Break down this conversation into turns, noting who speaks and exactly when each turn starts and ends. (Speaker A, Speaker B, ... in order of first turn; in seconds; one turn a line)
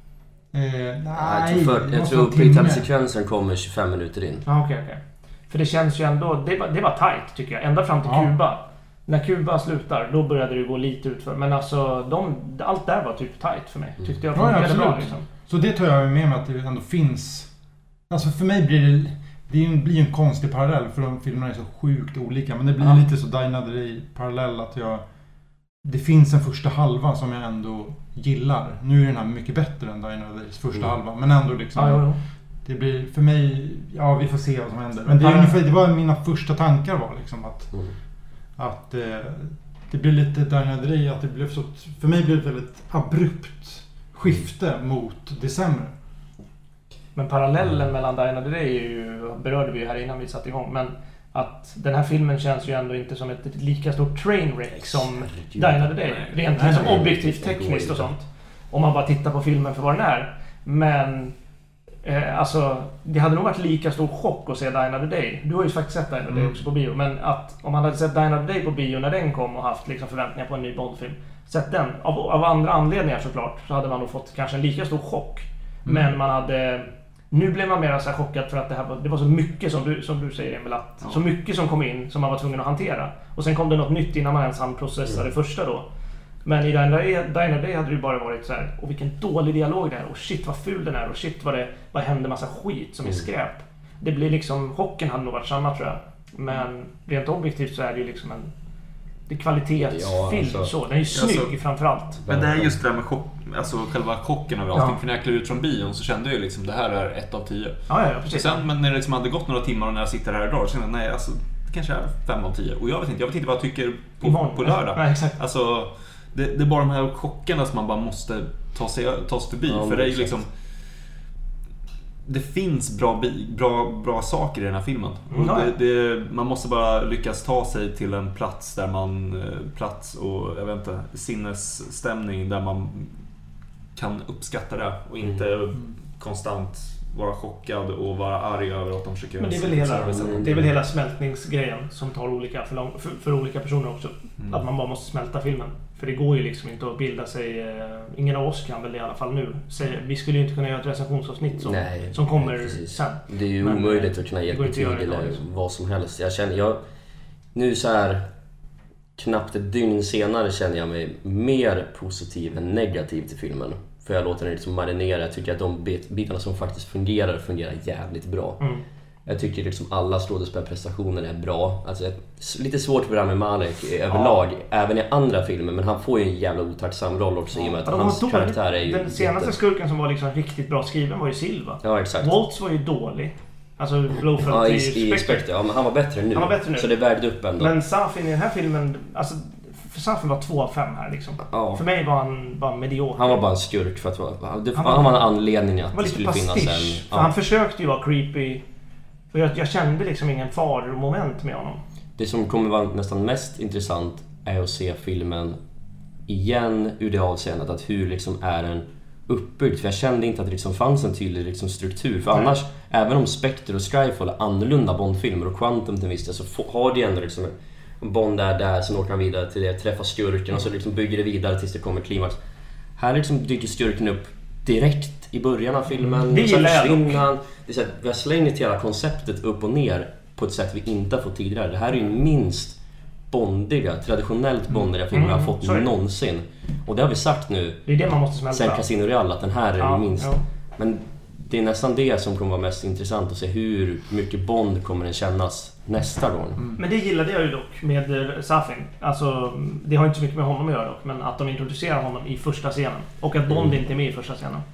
Speaker A: 0.5-2.9
Speaker B: 1.1-4.4
Speaker C: 4.4-15.2
Speaker A: 8.0-8.3
Speaker A: 14.3-17.5
Speaker A: 18.1-25.0
Speaker A: 25.8-37.9
Speaker C: 31.7-32.2
Speaker C: 35.0-35.6
Speaker A: 38.6-45.9
Speaker C: 47.1-61.3
Speaker B: 54.8-55.9
Speaker A: 56.5-57.0
Speaker B: 56.6-58.1
Speaker C: 62.0-85.8
Speaker C: 86.4-98.5
Speaker C: 99.3-102.2
Speaker B: 99.8-100.7
Speaker D: 101.1-101.5
Speaker B: 102.2-102.8
Speaker D: 102.2-120.5
Speaker C: 107.9-108.6
Speaker C: 114.2-115.4
Speaker B: 119.7-120.3
Speaker D: 122.2-133.2
Speaker C: 125.3-125.7
Speaker D: 133.9-140.5
Speaker C: 139.4-155.4
Speaker B: 139.9-140.7
Speaker D: 144.4-144.6
Speaker B: 151.6-156.8
Speaker B: 157.5-158.2
Speaker B: 159.2-168.7
Speaker B: 169.2-179.5
Speaker C: 174.1-174.3
Speaker C: 177.8-185.5
Speaker B: 181.8-182.3
Speaker B: 184.4-187.7
Speaker C: 186.3-186.9
Speaker C: 187.6-193.4
Speaker B: 191.5-191.8
Speaker B: 193.2-197.3
Speaker C: 194.8-195.1
Speaker C: 195.9-198.6
Speaker C: 199.3-201.8
Speaker B: 202.2-205.6
Speaker B: 206.3-222.4
Speaker B: 222.9-232.8
Speaker C: 226.3-227.2
Speaker B: 233.3-246.6
Speaker C: 235.1-235.9
Speaker C: 237.8-238.8
Speaker C: 239.8-240.4
Speaker C: 246.8-254.6